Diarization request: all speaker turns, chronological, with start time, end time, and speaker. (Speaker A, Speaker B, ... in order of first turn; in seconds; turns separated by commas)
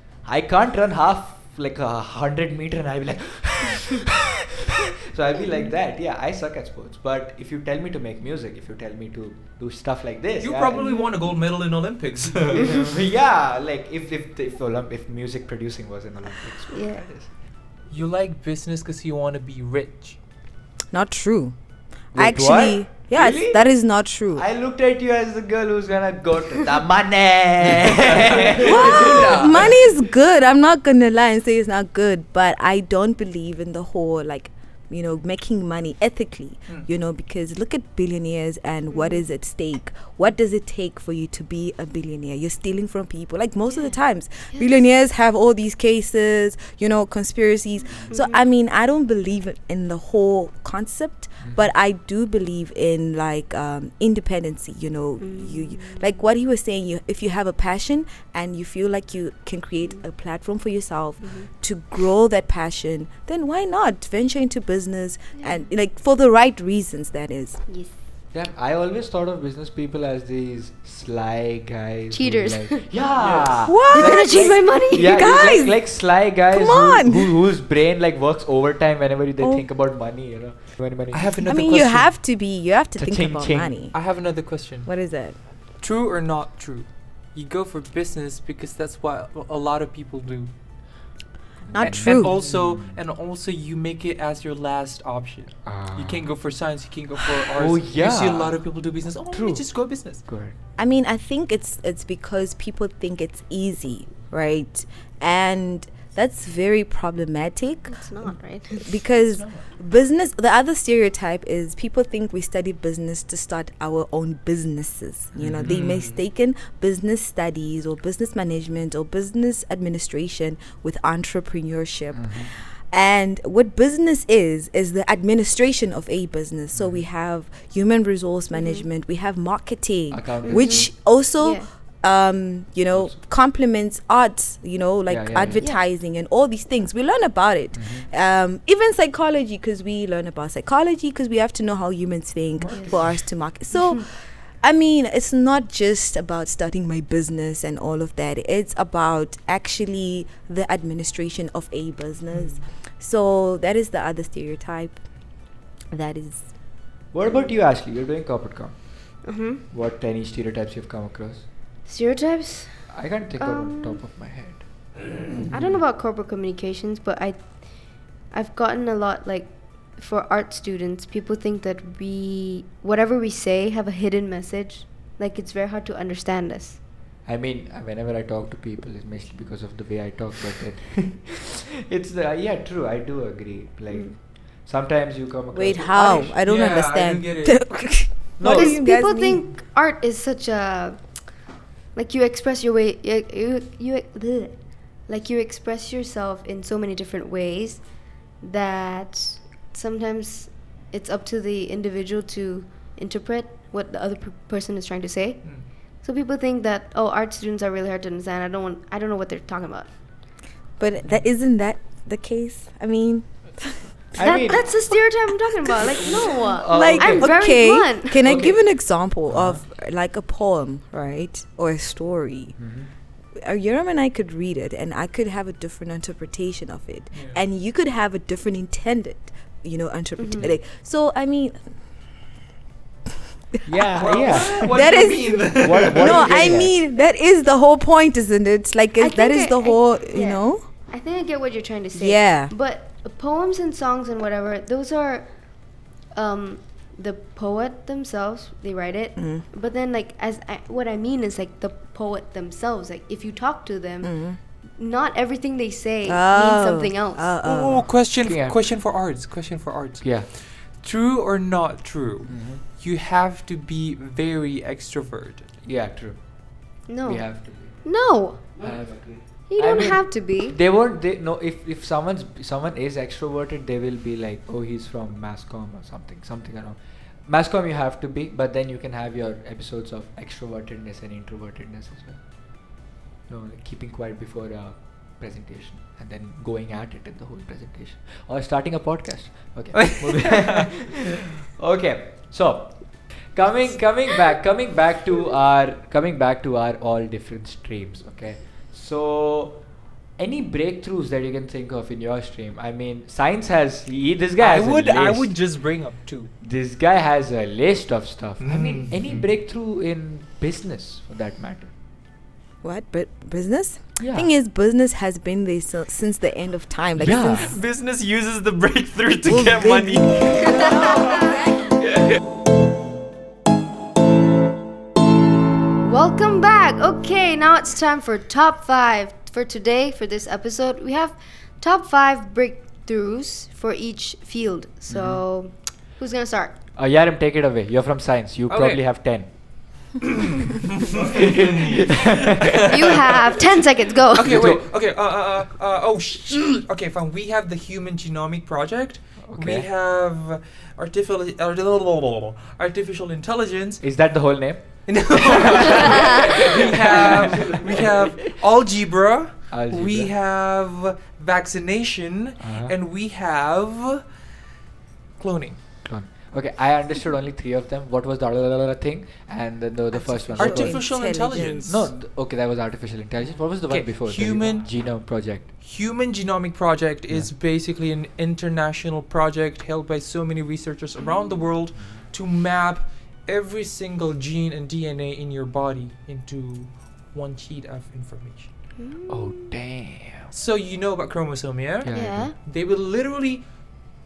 Speaker A: 0.2-10.9, Speaker B: 10.4-12.9, Speaker A: 12.5-17.3, Speaker C: 16.7-17.1, Speaker B: 17.9-20.2, Speaker D: 20.9-21.6, Speaker D: 22.1-24.4, Speaker A: 22.1-23.7, Speaker A: 24.3-29.7, Speaker B: 28.5-29.7, Speaker D: 28.6-67.6, Speaker C: 38.9-39.2, Speaker C: 43.7-44.0, Speaker A: 47.8-48.1, Speaker C: 48.1-48.4, Speaker A: 51.4-51.7, Speaker C: 55.2-56.1, Speaker C: 61.2-61.5, Speaker C: 67.7-67.9, Speaker A: 68.3-81.8, Speaker C: 72.1-72.9, Speaker B: 73.2-73.5, Speaker D: 73.6-75.8, Speaker C: 73.8-75.3, Speaker D: 76.5-77.4, Speaker B: 81.1-82.1, Speaker D: 81.4-83.9, Speaker A: 83.0-83.8, Speaker B: 83.9-84.9, Speaker D: 84.8-85.4, Speaker B: 85.8-90.5, Speaker A: 91.7-93.0, Speaker D: 91.7-92.3, Speaker B: 91.8-100.2, Speaker A: 95.7-96.3, Speaker A: 97.3-98.6, Speaker A: 99.3-100.5, Speaker D: 100.8-155.0, Speaker C: 107.9-109.0, Speaker B: 109.2-109.7, Speaker A: 115.3-115.8, Speaker B: 115.5-116.2, Speaker A: 122.1-122.5, Speaker A: 126.7-127.0, Speaker C: 128.5-128.9, Speaker A: 130.1-130.9, Speaker C: 130.4-131.7, Speaker A: 132.9-133.2, Speaker A: 135.1-135.6, Speaker C: 135.6-135.8, Speaker A: 137.7-138.1, Speaker B: 142.6-143.3, Speaker D: 155.9-156.5, Speaker A: 157.1-161.4, Speaker C: 159.2-159.6, Speaker C: 161.8-162.8, Speaker A: 162.9-165.8, Speaker C: 163.4-164.0, Speaker C: 165.5-176.8, Speaker A: 177.2-186.3, Speaker C: 183.9-184.2, Speaker D: 185.5-189.4, Speaker B: 185.9-187.6, Speaker A: 188.4-188.8, Speaker C: 188.4-191.2, Speaker C: 191.9-209.9, Speaker B: 205.4-205.7, Speaker D: 210.8-214.6, Speaker A: 214.2-214.7, Speaker C: 214.2-218.5, Speaker D: 215.8-222.6, Speaker A: 215.9-217.3, Speaker A: 218.2-218.6, Speaker A: 219.3-219.6, Speaker A: 222.6-222.9, Speaker D: 223.4-231.6, Speaker B: 227.1-227.4, Speaker C: 230.2-230.5, Speaker A: 233.7-234.8, Speaker B: 233.9-236.5, Speaker D: 234.3-240.6, Speaker A: 235.5-236.7, Speaker C: 239.0-245.3, Speaker D: 241.9-242.5, Speaker C: 246.1-254.1, Speaker D: 249.2-249.5, Speaker D: 254.0-254.4, Speaker C: 254.8-257.3, Speaker D: 256.1-257.9, Speaker B: 257.4-265.5, Speaker A: 258.0-258.6, Speaker A: 260.0-260.3, Speaker A: 262.3-262.6, Speaker A: 265.6-267.8, Speaker C: 266.9-267.3, Speaker C: 267.8-268.6, Speaker A: 268.6-282.2, Speaker C: 269.5-270.6, Speaker A: 283.3-299.6, Speaker B: 289.8-290.6, Speaker A: 300.2-305.3, Speaker B: 304.4-306.3, Speaker A: 306.4-311.7, Speaker B: 308.4-309.0, Speaker D: 312.6-317.5, Speaker A: 314.0-314.3, Speaker A: 316.9-317.5, Speaker B: 317.2-320.9, Speaker D: 319.2-321.3, Speaker C: 320.6-321.0, Speaker C: 325.8-336.6, Speaker A: 334.9-335.2, Speaker A: 336.8-339.3, Speaker B: 338.5-338.8, Speaker B: 340.0-342.8, Speaker A: 340.9-342.9, Speaker C: 342.6-344.4, Speaker B: 344.1-353.8, Speaker A: 344.2-344.7, Speaker A: 349.2-349.7, Speaker A: 353.8-358.1, Speaker B: 354.9-364.1, Speaker A: 359.5-360.1, Speaker A: 362.4-362.7, Speaker B: 365.2-365.6, Speaker A: 365.8-375.5, Speaker D: 369.9-371.6, Speaker B: 370.4-371.9, Speaker B: 373.7-374.7, Speaker B: 375.6-388.5, Speaker C: 388.8-389.5, Speaker A: 389.1-390.3, Speaker B: 390.3-393.4, Speaker A: 391.8-392.3, Speaker C: 391.9-392.3